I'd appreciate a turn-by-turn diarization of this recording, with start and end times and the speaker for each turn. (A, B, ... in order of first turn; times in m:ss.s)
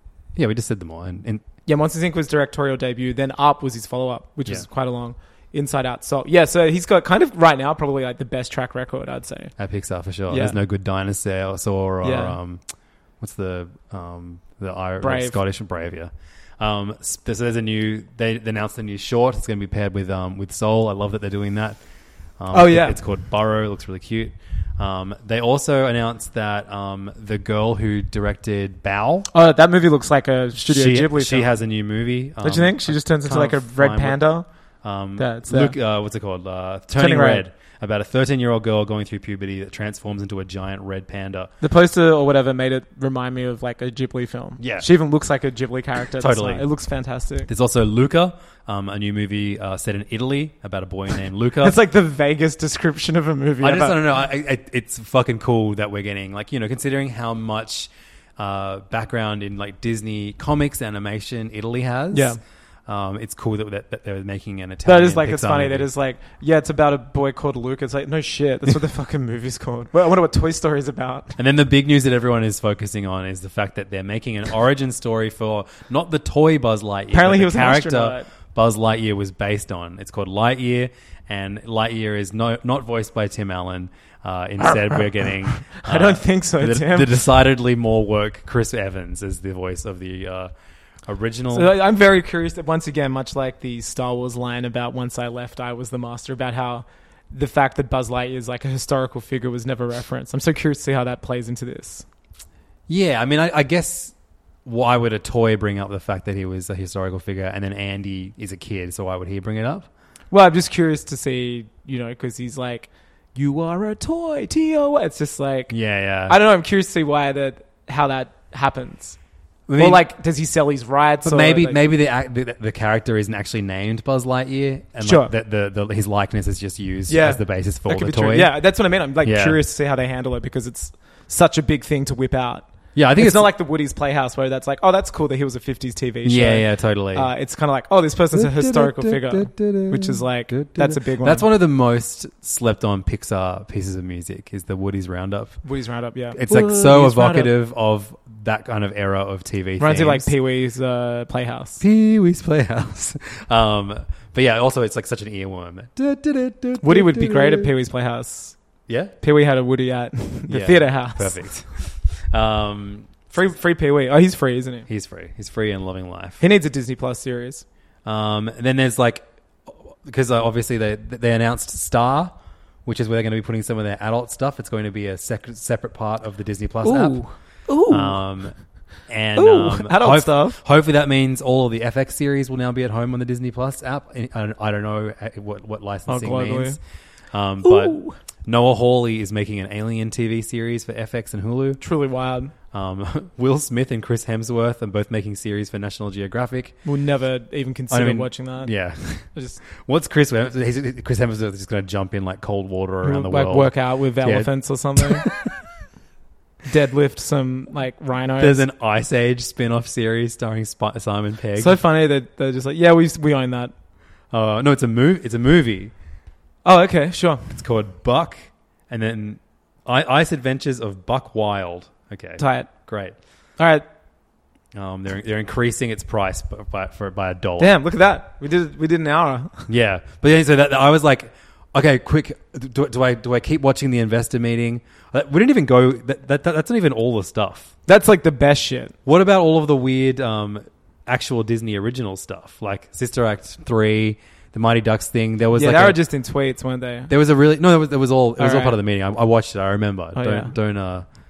0:00.3-0:01.4 A
0:01.6-0:09.5 B
0:09.6-0:12.6 A
0:10.3-0:10.6 B
0:12.0-0:12.4 B
0:13.2-0:21.8 A
0:15.0-0:15.4 B
0:22.4-0:29.3 A
0:22.5-0:23.0 B
0:29.3-0:31.5 B
0:30.6-0:41.5 A
0:32.4-0:34.5 B
0:35.2-0:35.8 B
0:37.0-0:37.4 B
0:41.6-0:47.5 B
0:44.6-0:44.9 A
0:46.2-0:46.7 A
0:47.5-0:51.8 A
0:51.6-0:54.1 B
0:53.6-1:05.9 A
1:02.1-1:02.4 B
1:04.8-1:11.4 B
1:11.4-1:30.5 A
1:17.1-1:18.3 B
1:24.9-1:27.1 B
1:31.1-1:31.7 A
1:31.5-1:42.0 B
1:42.9-1:49.9 A
1:50.3-1:59.2 B
1:55.7-1:56.4 A
1:59.7-2:00.1 A
1:59.8-2:01.8 B
2:01.2-2:09.6 A
2:05.0-2:05.3 B
2:07.1-2:21.5 B
2:12.9-2:13.5 A
2:16.2-2:17.3 A
2:18.3-2:25.6 A
2:25.6-2:27.5 B
2:26.3-2:30.3 A
2:29.8-2:31.8 B
2:31.8-2:37.7 A
2:36.8-2:38.6 B
2:38.9-2:39.1 A
2:39.2-2:41.7 B
2:40.5-2:43.1 A
2:43.3-2:44.9 B
2:44.9-2:46.4 A
2:46.4-2:47.6 B
2:48.0-2:57.2 A
2:56.8-2:58.2 B
2:57.9-3:06.8 A
2:59.3-3:00.6 B
3:06.1-3:06.8 B
3:07.3-3:11.8 A
3:07.6-3:08.2 B
3:11.8-3:12.5 B
3:12.7-3:16.8 A
3:16.8-3:18.7 B
3:17.9-3:25.6 A
3:19.2-3:19.6 B
3:23.0-3:25.3 B
3:26.6-3:28.6 B
3:28.4-3:31.8 A
3:31.6-3:33.7 B
3:34.3-3:35.9 A
3:36.6-3:37.6 B
3:37.5-3:43.2 A
3:42.4-3:42.7 B
3:43.6-3:43.9 B
3:44.7-3:47.8 A
3:47.6-3:49.7 B
3:49.7-3:57.7 A
3:57.9-3:59.0 B
3:59.0-4:06.0 A
4:05.6-4:07.1 B
4:07.1-4:11.0 A
4:08.4-4:08.8 B
4:10.2-4:10.5 B